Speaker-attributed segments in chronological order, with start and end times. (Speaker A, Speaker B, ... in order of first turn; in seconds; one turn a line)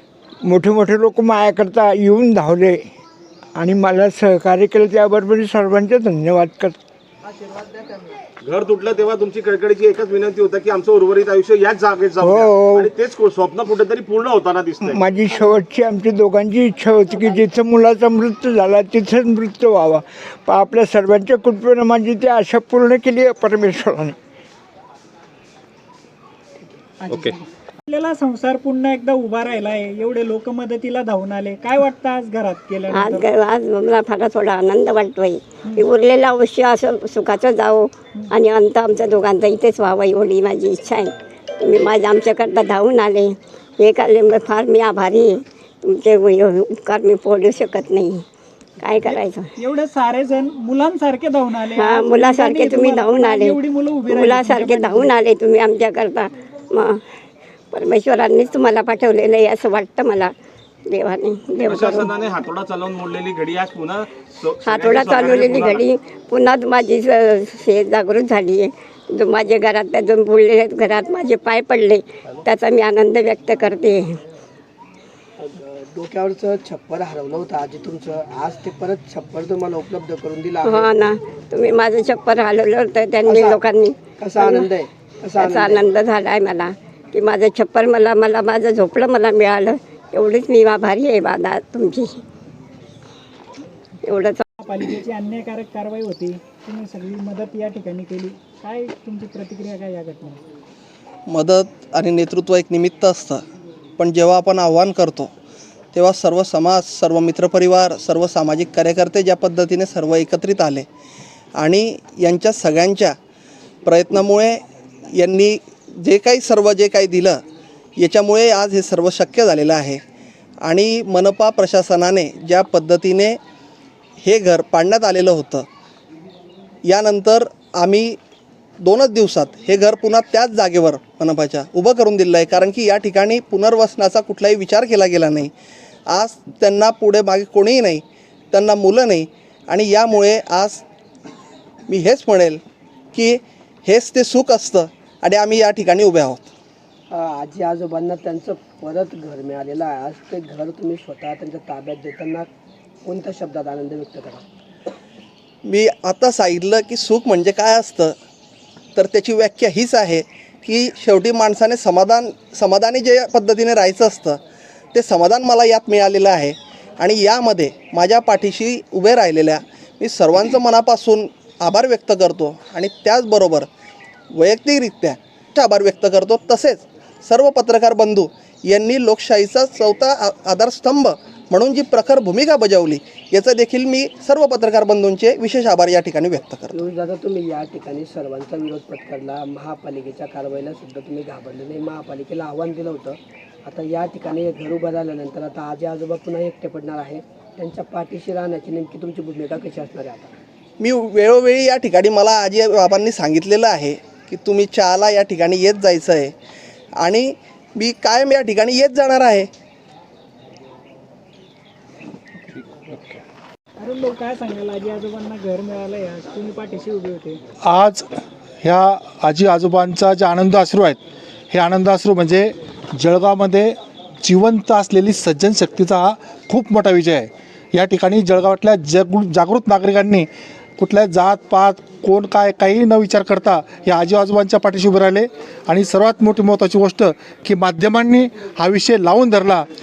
Speaker A: 0.4-2.9
Speaker A: 3.5-6.8
Speaker B: 8.4-15.0
Speaker A: 12.2-12.9
Speaker A: 14.8-24.2
Speaker C: 27.0-33.3
Speaker D: 32.9-48.2
Speaker D: 48.8-49.5
Speaker C: 49.0-55.2
Speaker D: 51.8-53.6
Speaker D: 54.1-57.0
Speaker D: 57.7-60.3
Speaker D: 60.9-62.1
Speaker B: 61.6-65.9
Speaker D: 64.6-74.2
Speaker E: 78.2-79.9
Speaker D: 80.6-84.7
Speaker D: 85.4-92.2
Speaker D: 94.1-94.4
Speaker C: 94.6-100.4
Speaker F: 101.3-103.4
Speaker F: 104.0-105.3
Speaker F: 105.9-110.9
Speaker F: 111.6-113.2
Speaker F: 113.8-117.4
Speaker F: 118.0-120.0
Speaker F: 120.6-123.4
Speaker F: 124.2-125.7
Speaker F: 126.8-128.2
Speaker F: 128.8-135.5
Speaker F: 136.1-140.8
Speaker F: 141.9-142.6
Speaker F: 143.1-146.5
Speaker E: 148.1-149.3
Speaker E: 151.0-152.2
Speaker E: 153.8-154.3
Speaker F: 155.7-158.2
Speaker F: 159.0-164.4
Speaker F: 164.9-173.7
Speaker F: 174.3-186.8
Speaker E: 186.9-193.0
Speaker E: 193.7-194.3
Speaker E: 195.1-200.3
Speaker F: 200.8-206.3
Speaker F: 207.0-209.5
Speaker C: 213.8-217.4
Speaker G: 217.7-218.1
Speaker G: 218.6-221.0
Speaker G: 221.5-239.7